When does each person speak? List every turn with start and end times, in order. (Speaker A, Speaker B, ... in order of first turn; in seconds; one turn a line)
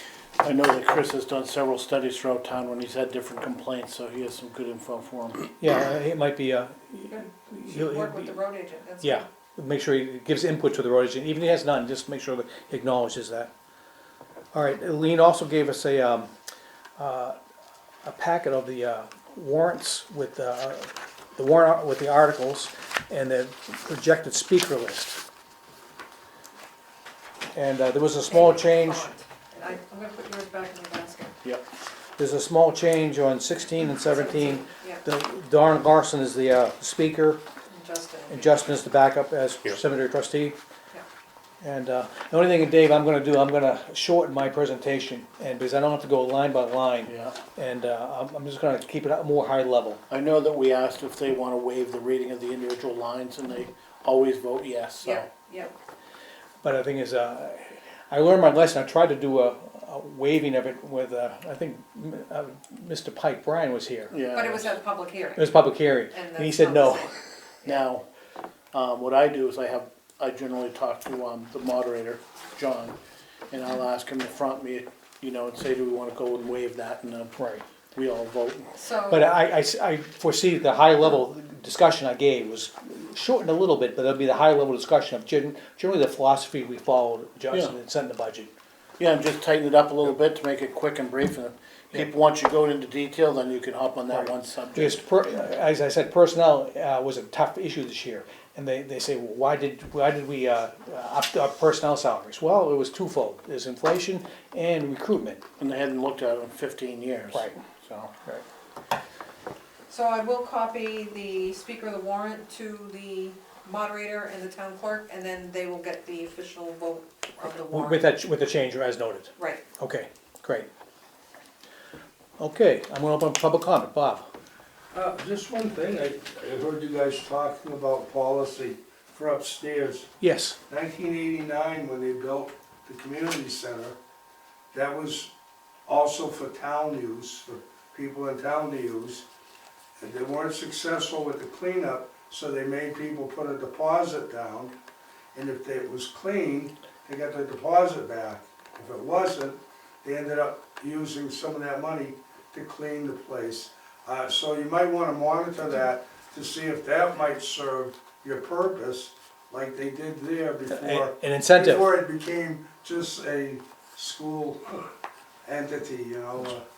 Speaker A: 0.4-5.5
Speaker B: 5.6-8.3
Speaker C: 7.1-9.2
Speaker B: 9.0-13.5
Speaker B: 14.5-16.3
Speaker B: 17.0-17.4
Speaker B: 18.0-25.2
Speaker B: 27.5-29.1
Speaker C: 28.3-31.3
Speaker B: 32.2-37.4
Speaker C: 34.0-35.0
Speaker C: 37.7-38.7
Speaker B: 38.3-40.6
Speaker B: 41.6-50.0
Speaker A: 47.0-47.4
Speaker A: 50.1-55.3
Speaker C: 55.0-55.7
Speaker B: 56.6-64.1
Speaker A: 64.1-64.7
Speaker C: 64.3-65.6
Speaker B: 65.4-67.0
Speaker C: 66.1-67.2
Speaker A: 67.6-68.0
Speaker A: 68.7-73.0
Speaker A: 73.5-77.3
Speaker B: 77.3-77.6
Speaker A: 77.9-78.7
Speaker C: 78.7-79.3
Speaker B: 79.1-88.5
Speaker A: 89.0-95.0
Speaker B: 94.1-105.4
Speaker A: 105.6-108.1
Speaker B: 107.3-108.4
Speaker C: 109.9-118.1
Speaker B: 117.7-120.7
Speaker C: 119.4-119.6
Speaker B: 122.4-124.3
Speaker D: 124.9-130.1
Speaker B: 130.2-130.6
Speaker D: 130.7-134.0
Speaker D: 134.7-135.3
Speaker D: 135.9-139.2
Speaker D: 140.0-144.7
Speaker D: 145.3-164.8
Speaker B: 160.7-161.9
Speaker D: 165.4-166.6